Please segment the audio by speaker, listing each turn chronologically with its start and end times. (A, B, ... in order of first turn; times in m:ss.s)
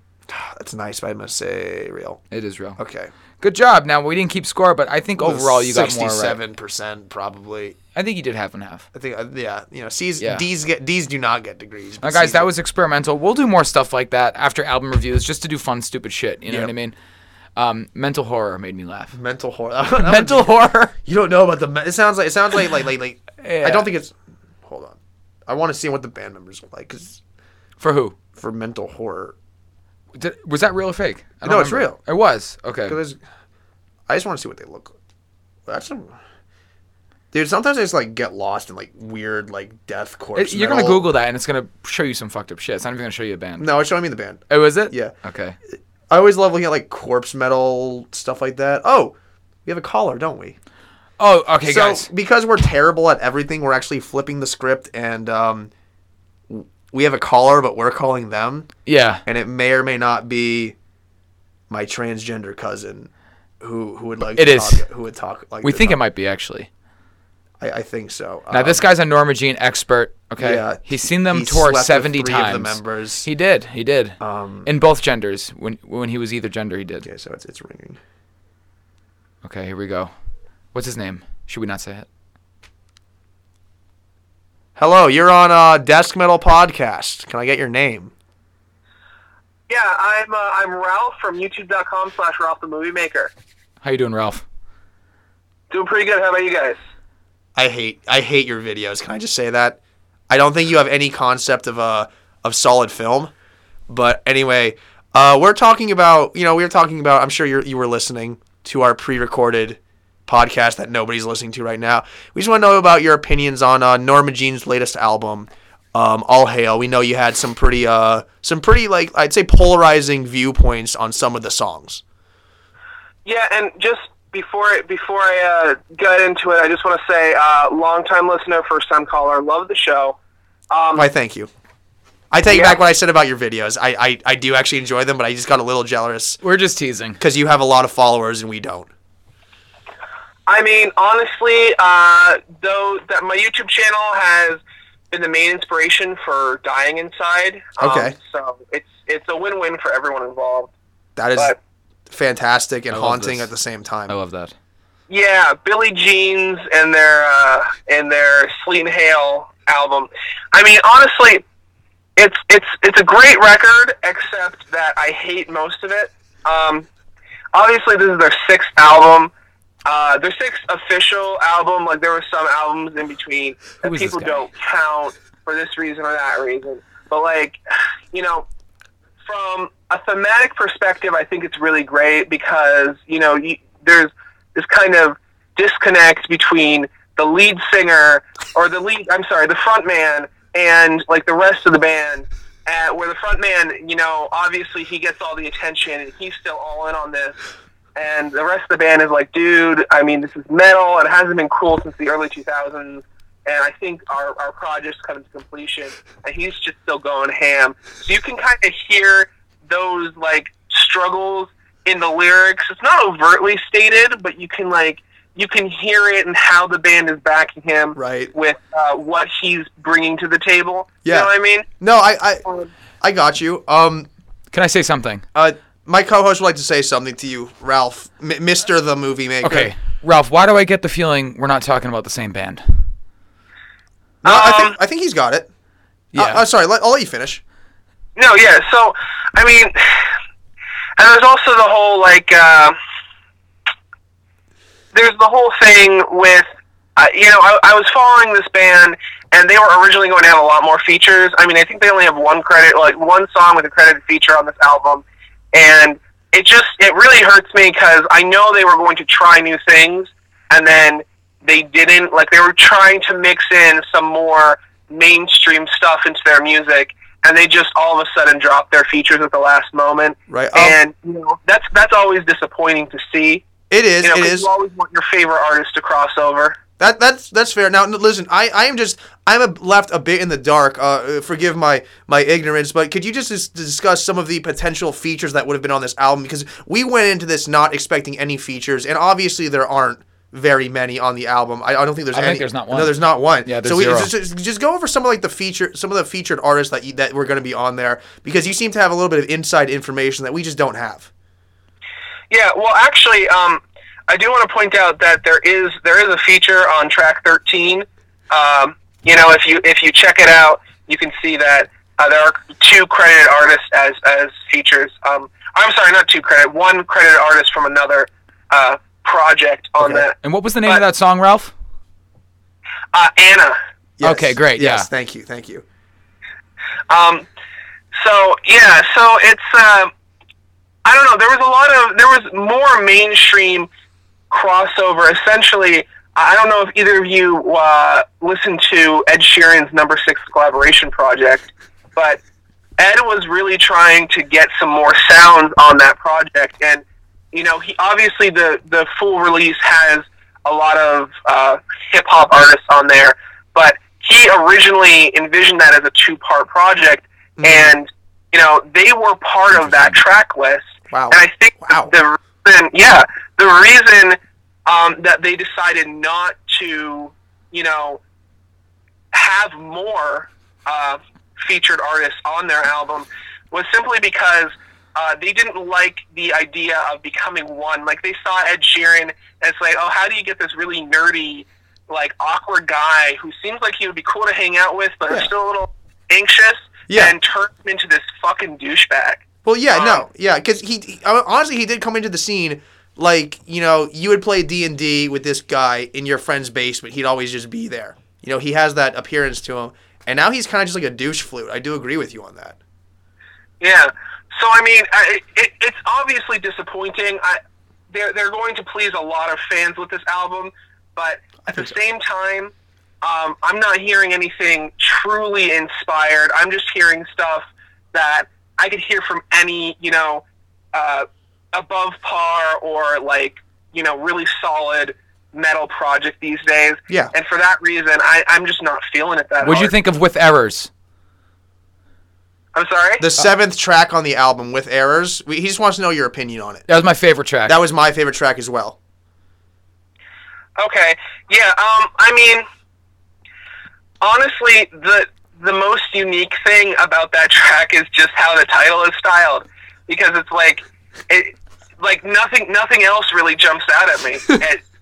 0:00.3-0:02.2 A
0:02.3-0:02.8 B
0:02.8-0:03.1 A
0:03.4-0:06.4 B
0:05.2-0:07.8 A
0:07.9-0:08.8 B
0:08.9-0:12.5 A
0:10.2-0:10.4 B
0:12.0-0:16.9 B
0:17.6-0:19.2 B
0:19.1-0:20.5 A
0:20.0-0:20.9 B
0:21.0-0:27.2 A
0:23.4-0:23.9 B
0:27.8-0:28.2 B
0:28.4-0:29.3 A
0:30.1-0:33.0 B
0:31.4-0:32.0 A
0:32.9-0:33.2 A
0:34.1-0:34.9 A
0:35.7-0:36.1 A
0:37.3-0:41.0 A
0:40.3-0:43.6 B
0:43.6-0:45.1 A
0:44.5-0:45.6 B
0:46.1-0:49.1 A
0:49.6-0:50.6 A
0:51.2-0:52.1 B
0:51.6-0:55.7 A
0:56.5-0:58.7 A
0:58.8-0:59.2 B
0:59.2-1:00.7 A
1:01.7-1:03.1 A
1:03.6-1:06.0 A
1:04.4-1:04.8 B
1:05.6-1:06.7 B
1:07.6-1:08.8 A
1:08.5-1:17.1 B
1:10.4-1:13.3 A
1:14.2-1:14.7 A
1:17.0-1:18.0 A
1:19.4-1:20.1 B
1:20.7-1:22.1 B
1:24.8-1:28.1 A
1:29.7-1:33.3 C
1:33.8-1:34.4 B
1:35.7-1:36.8 C
1:37.6-1:43.3 A
1:43.9-2:02.0 A
2:03.2-2:10.2 C
2:10.7-2:11.0 C
2:10.9-2:11.5 A
2:12.3-2:16.4 A
2:12.5-2:12.8 C
2:16.4-2:17.2 B
2:17.2-2:18.9 A
2:20.5-2:24.6 C
2:25.1-2:30.7 C
2:27.8-2:28.2 A
2:31.2-2:31.5 A
2:32.1-2:34.1 A
2:32.9-2:33.5 B
2:34.1-2:34.5 B
2:35.1-2:41.4 C
2:42.2-2:46.8 C
2:47.5-2:49.3 C
2:49.8-2:57.6 C
2:53.8-2:54.4 B
2:58.1-2:58.4 C
2:59.2-3:17.4 C
3:18.0-3:41.7 C
3:38.0-3:38.3 A
3:41.0-3:42.4 A
3:43.0-3:44.1 A
3:44.5-3:45.2 B
3:45.3-3:49.7 A
3:49.4-3:52.8 B
3:54.2-3:55.5 A
3:54.2-3:54.8 C
3:56.1-3:56.4 B
3:56.1-3:57.4 A
3:58.2-4:00.1 C
4:01.0-4:02.8 C
4:04.9-4:33.4 C
4:30.3-4:30.8 A
4:33.7-4:34.5 A
4:34.0-4:36.6 C
4:36.8-5:01.1 A
4:52.1-4:54.1 B
5:02.3-5:20.8 C
5:20.2-5:21.5 B
5:22.9-5:23.6 C
5:24.0-5:25.6 A
5:24.0-5:24.9 B
5:26.9-5:27.2 C
5:28.0-5:29.9 C
5:30.8-5:33.7 C
5:34.3-5:42.2 C
5:42.8-6:08.0 C
5:57.4-5:57.8 A
5:59.5-6:00.0 B
6:00.9-6:01.9 A
6:09.1-6:30.0 C
6:26.9-6:27.1 A
6:29.4-6:42.6 A
6:43.6-6:47.4 C
6:47.9-7:09.7 C
6:51.4-6:51.7 A
7:09.4-7:10.7 B
7:12.5-7:13.0 C
7:13.0-7:16.6 A
7:16.7-7:17.6 B
7:17.5-7:18.8 A
7:20.6-7:22.4 C
7:24.0-7:34.6 C